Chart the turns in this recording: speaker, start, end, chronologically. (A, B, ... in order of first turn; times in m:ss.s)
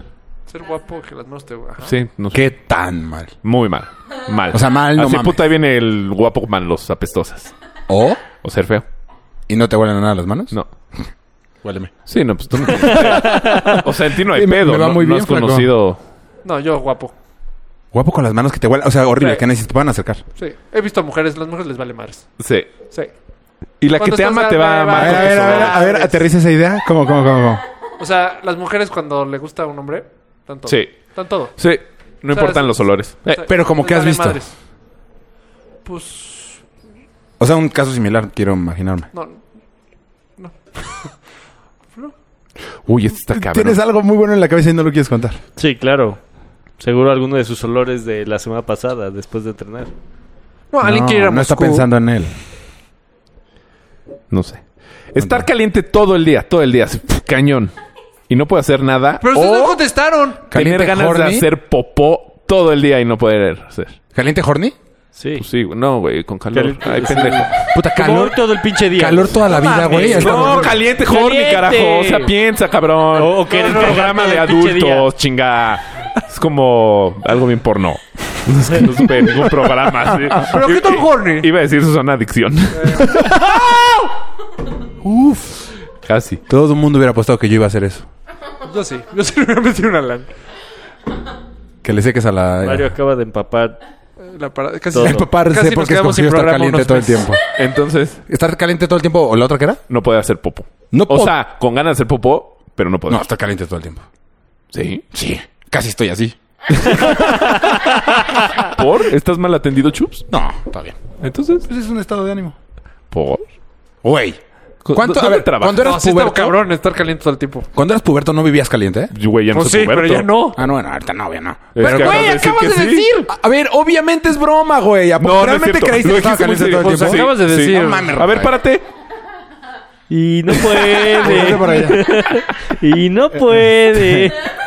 0:00.5-0:01.9 A
0:01.8-0:02.5 B
0:02.3-0:03.3 C
0:03.4-0:07.5 B
0:04.5-0:05.4 C
0:07.9-0:08.2 C
0:08.4-0:08.9 B
0:09.5-0:10.6 C
0:11.6-0:15.7 C
0:12.1-0:16.0 B
0:13.0-0:13.8 D
0:16.4-0:17.1 A
0:17.9-0:20.2 C
0:19.2-0:19.4 A
0:20.4-0:22.3 A
0:22.4-0:22.7 B
0:23.8-0:25.9 B
0:24.0-0:26.2 A
0:25.0-0:27.6 C
0:28.0-0:31.5 A
0:30.7-0:33.4 B
0:32.3-0:34.5 A
0:33.4-0:34.4 C
0:35.8-0:36.6 A
0:37.4-0:39.1 C
0:39.1-0:39.4 A
0:40.4-0:41.1 A
0:42.8-0:43.8 B
0:43.3-0:45.4 C
0:45.6-0:46.2 D
0:46.8-0:49.9 D
0:50.7-0:51.9 A
0:50.8-0:52.4 C
0:54.3-0:57.7 B
0:55.2-0:55.5 C
0:58.3-0:59.8 B
0:59.2-1:00.4 A
1:00.5-1:01.5 C
1:00.5-1:04.0 B
1:04.1-1:04.8 C
1:05.1-1:05.4 D
1:05.4-1:07.6 B
1:06.5-1:12.3 D
1:07.7-1:10.8 C
1:10.1-1:23.8 B
1:13.1-1:15.1 D
1:13.5-1:14.2 A
1:20.4-1:21.5 A
1:22.7-1:23.1 A
1:23.2-1:23.6 C
1:25.0-1:25.5 C
1:26.0-1:26.4 B
1:26.5-1:28.1 C
1:28.6-1:30.3 A
1:31.8-1:32.9 C
1:32.6-1:33.8 D
1:34.2-1:37.3 A
1:34.9-1:35.3 D
1:35.0-1:37.4 C
1:37.6-1:38.2 B
1:38.3-1:39.8 C
1:39.9-1:43.3 B
1:40.9-1:41.4 C
1:43.1-1:44.0 C
1:44.7-1:45.0 B
1:45.1-1:47.5 C
1:47.0-1:50.3 B
1:50.3-1:51.0 C
1:51.2-1:51.7 B
1:51.6-1:52.6 C
1:53.1-1:53.4 B
1:54.0-1:54.4 C
1:54.8-1:56.0 B
1:54.9-1:56.6 C
1:55.8-1:57.7 A
1:57.7-1:59.1 C
1:59.1-2:00.5 B
1:59.5-2:00.6 A
2:00.6-2:08.6 C
2:01.7-2:03.1 B
2:01.8-2:03.3 A
2:05.2-2:08.8 B
2:06.6-2:08.1 A
2:10.1-2:14.4 D
2:10.8-2:12.1 C
2:13.9-2:14.3 C